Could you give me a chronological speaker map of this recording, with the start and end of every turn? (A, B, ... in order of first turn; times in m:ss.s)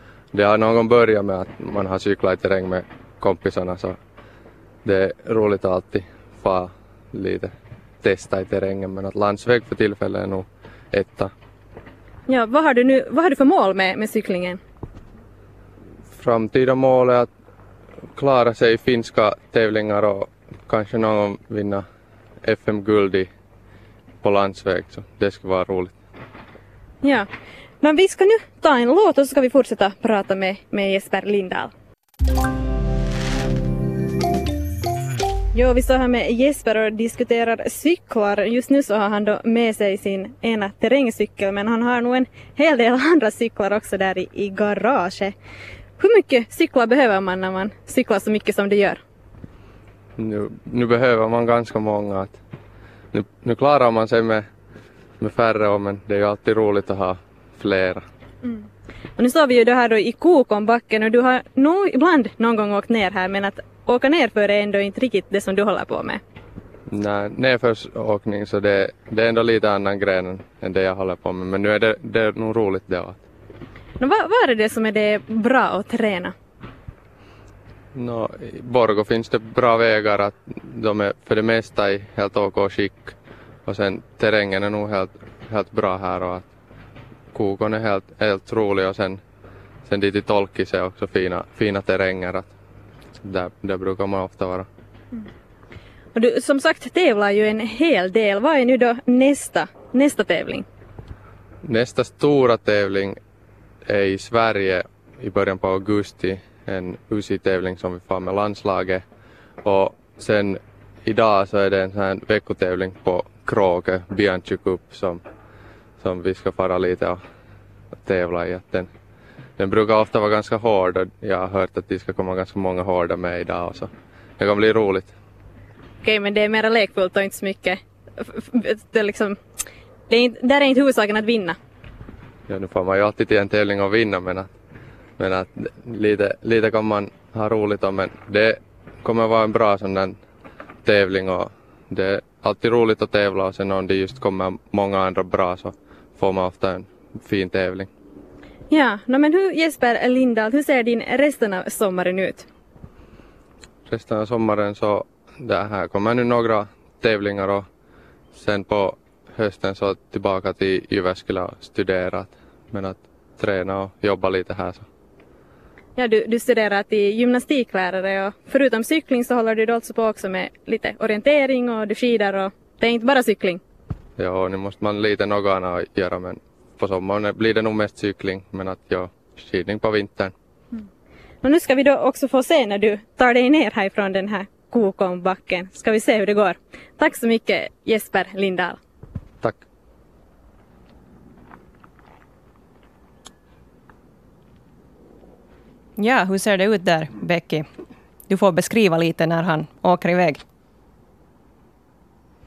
0:00.3-0:04.0 A
0:04.8-0:11.3 A
0:12.3-0:14.6 B
0:16.1-0:17.3 A
0:18.2-0:21.9 A
0:22.4-0:23.3 A
0:24.2-0:25.9 A
0:27.0-0:27.3 B
0:27.8-0:31.7 B
0:35.5-0:45.4 B
0:46.0-0:49.0 B
0:50.2-0:52.4 A
0:53.1-0:54.5 A
0:55.2-0:58.0 A
0:59.2-1:06.2 B
1:06.9-1:13.2 A
1:14.0-1:16.3 B
1:18.0-1:23.2 A
1:23.7-1:26.5 A
1:27.3-1:29.2 A
1:29.9-1:32.5 A
1:33.2-1:34.7 A
1:36.1-1:40.6 B
1:41.6-1:43.2 A
1:43.9-1:49.0 A
1:49.6-1:55.2 A
1:56.0-1:57.2 A
1:58.0-1:58.9 A
1:59.6-2:05.1 A
2:06.0-2:09.4 B
2:10.1-2:11.6 B
2:12.5-2:14.5 A
2:15.2-2:20.2 A
2:20.8-2:27.9 A
2:28.7-2:32.5 B
2:33.9-2:37.7 A
2:38.4-2:44.9 A
2:46.0-2:53.6 B
2:54.2-3:00.3 A
3:01.4-3:08.8 B
3:16.0-3:17.7 C
3:18.3-3:20.4 C